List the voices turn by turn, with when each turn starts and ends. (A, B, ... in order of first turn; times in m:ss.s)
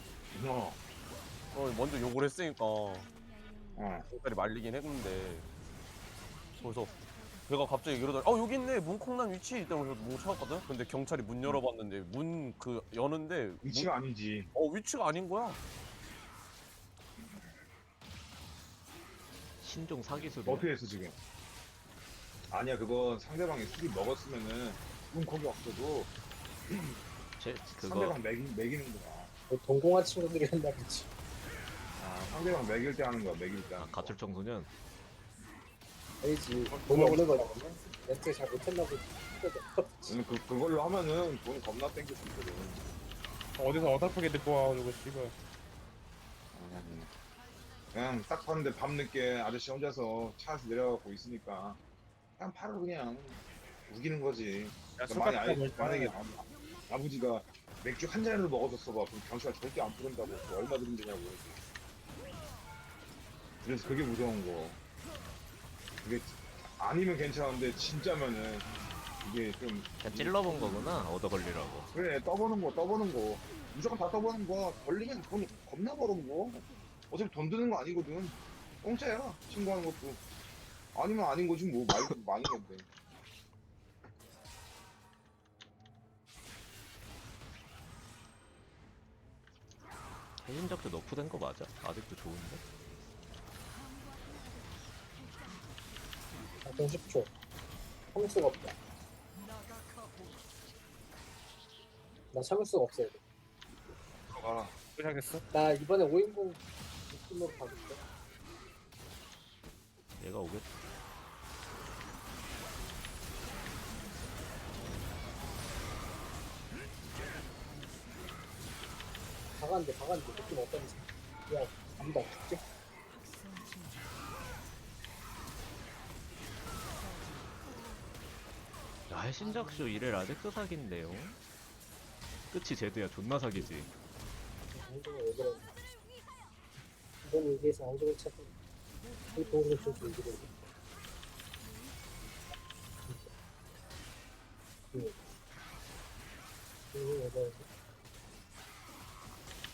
0:00.3-0:00.8 A
0:01.5-0:03.1 B
0:03.8-0:04.1 A
0:04.0-0:05.5 B
0:06.6-0:07.0 B
0:07.5-0:13.9 B
0:13.6-0:14.5 A
0:14.5-0:15.6 B
0:19.6-0:20.7 C
0:20.2-0:21.2 A
0:22.5-0:26.1 A
0:26.7-0:27.0 A
0:27.4-0:28.2 C
0:27.8-0:29.3 A
0:29.5-0:31.1 D
0:32.0-0:34.2 A
0:33.8-0:34.7 C
0:36.2-0:40.2 D
0:36.7-0:37.7 E
0:40.1-0:42.8 A
0:43.6-0:45.3 E
0:46.5-0:47.1 A
0:47.9-0:51.8 A
0:52.4-1:01.6 A
0:55.0-0:56.1 E
1:03.6-1:04.8 A
1:06.0-1:08.7 A
1:09.2-1:10.8 A
1:10.0-1:11.9 C
1:11.9-1:20.2 A
1:21.0-1:22.9 A
1:30.4-1:32.6 C
1:36.6-1:37.3 D
1:38.1-1:38.8 D
1:42.3-1:43.2 D
1:44.3-1:44.8 A
1:45.0-1:45.4 E
1:45.5-1:48.0 D
1:50.2-1:50.7 C
1:59.6-2:02.6 D
2:09.1-2:11.4 C
2:12.5-2:13.9 C
2:14.7-2:15.7 D
2:17.2-2:18.5 D
2:19.3-2:20.5 D
2:24.9-2:25.2 D
2:26.9-2:27.7 D